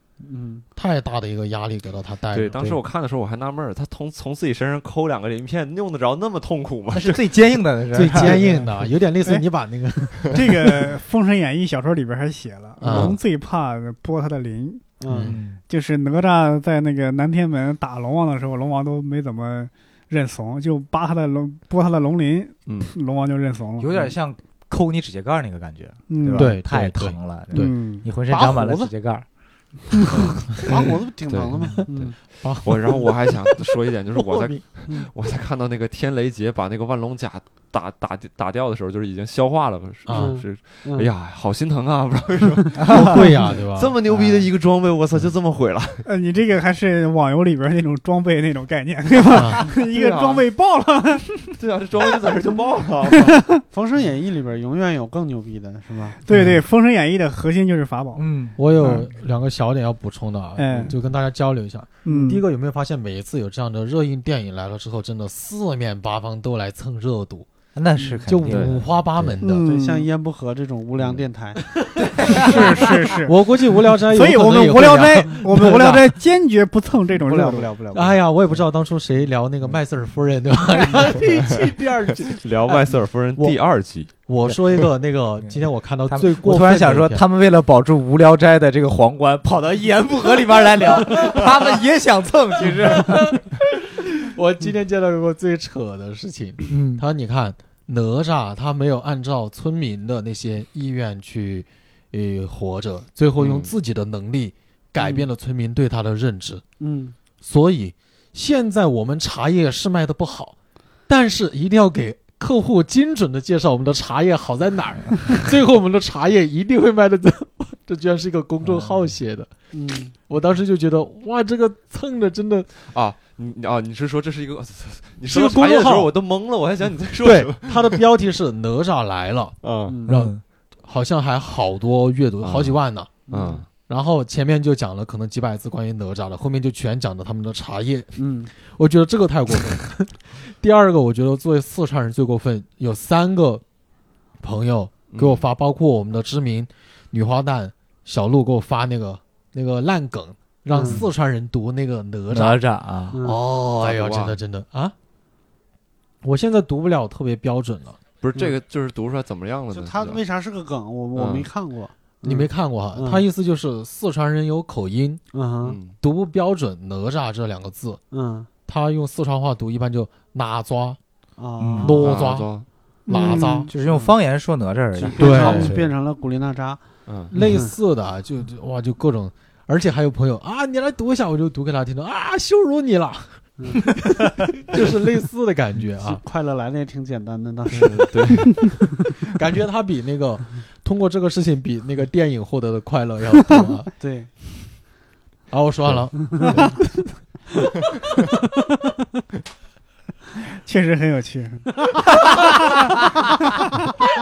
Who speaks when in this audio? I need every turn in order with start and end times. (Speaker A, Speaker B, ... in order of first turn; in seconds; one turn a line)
Speaker A: 0.2-0.7
Speaker B: 0.8-2.6
Speaker C: 2.3-7.2
Speaker D: 6.9-8.4
Speaker B: 7.9-10.6
Speaker A: 8.2-8.7
Speaker E: 10.2-15.0
Speaker B: 12.8-13.2
Speaker A: 12.9-13.2
Speaker A: 15.0-15.3
Speaker B: 15.1-15.4
Speaker D: 15.2-15.6
Speaker E: 15.6-23.9
Speaker C: 22.7-22.9
Speaker D: 23.8-29.3
Speaker E: 26.1-26.6
Speaker B: 26.3-27.8
Speaker E: 27.5-28.1
Speaker A: 28.3-28.9
Speaker E: 29.9-30.3
Speaker A: 30.2-32.2
Speaker C: 31.3-46.0
Speaker B: 32.4-32.8
Speaker D: 34.2-34.6
Speaker B: 40.1-40.4
Speaker A: 40.1-41.1
Speaker D: 42.8-43.2
Speaker B: 42.9-44.5
Speaker E: 46.0-51.5
Speaker B: 49.3-49.6
Speaker C: 49.7-50.5
Speaker C: 51.4-53.4
Speaker E: 53.1-53.6
Speaker A: 53.7-56.2
Speaker E: 56.2-58.2
Speaker B: 56.3-56.6
Speaker D: 58.2-58.6
Speaker B: 58.6-67.5
Speaker E: 58.8-59.1
Speaker E: 60.6-61.0
Speaker E: 62.0-62.4
Speaker D: 67.8-69.4
Speaker B: 68.3-69.7
Speaker C: 68.5-68.8
Speaker E: 69.4-70.1
Speaker A: 69.6-71.6
Speaker E: 72.3-73.4
Speaker B: 73.2-75.9
Speaker E: 74.1-77.7
Speaker D: 75.5-76.1
Speaker A: 77.2-78.2
Speaker B: 77.9-82.8
Speaker C: 82.2-84.1
Speaker B: 84.1-87.2
Speaker D: 85.4-93.4
Speaker B: 91.0-91.5
Speaker B: 92.9-93.6
Speaker B: 94.2-106.6
Speaker D: 96.7-97.0
Speaker C: 103.4-103.7
Speaker A: 105.0-105.3
Speaker A: 106.8-107.2
Speaker B: 107.4-110.6
Speaker B: 111.1-119.5
Speaker A: 119.7-120.2
Speaker B: 120.2-122.7
Speaker C: 122.9-128.0
Speaker B: 125.2-126.2
Speaker B: 127.2-133.2
Speaker C: 129.6-130.0
Speaker A: 129.9-130.1
Speaker D: 130.1-130.4
Speaker C: 132.4-132.8
Speaker A: 133.3-133.6
Speaker C: 133.3-133.7
Speaker B: 133.9-143.6
Speaker A: 138.2-138.5
Speaker B: 144.4-152.6
Speaker C: 145.1-145.4
Speaker A: 150.7-151.0
Speaker D: 152.3-153.2
Speaker A: 153.1-153.4
Speaker B: 153.2-154.9
Speaker C: 153.8-154.4
Speaker B: 156.2-158.0
Speaker C: 158.2-160.2
Speaker A: 159.7-163.2
Speaker C: 161.2-161.5
Speaker B: 162.2-165.3
Speaker A: 165.3-165.8
Speaker C: 165.6-166.0
Speaker B: 165.9-168.0
Speaker A: 168.1-168.5
Speaker B: 168.7-171.0
Speaker A: 171.4-172.1
Speaker D: 171.6-172.0
Speaker B: 171.8-173.7
Speaker C: 172.0-172.7
Speaker E: 173.1-173.7
Speaker D: 173.7-175.9
Speaker A: 175.0-177.7
Speaker B: 175.2-175.8
Speaker C: 177.1-177.3
Speaker B: 177.3-186.2
Speaker A: 183.6-183.9
Speaker A: 186.0-188.2
Speaker C: 187.7-188.7
Speaker B: 189.3-193.9
Speaker A: 194.0-194.3
Speaker B: 195.5-196.7
Speaker E: 196.4-196.8
Speaker E: 200.6-201.7
Speaker D: 202.2-202.6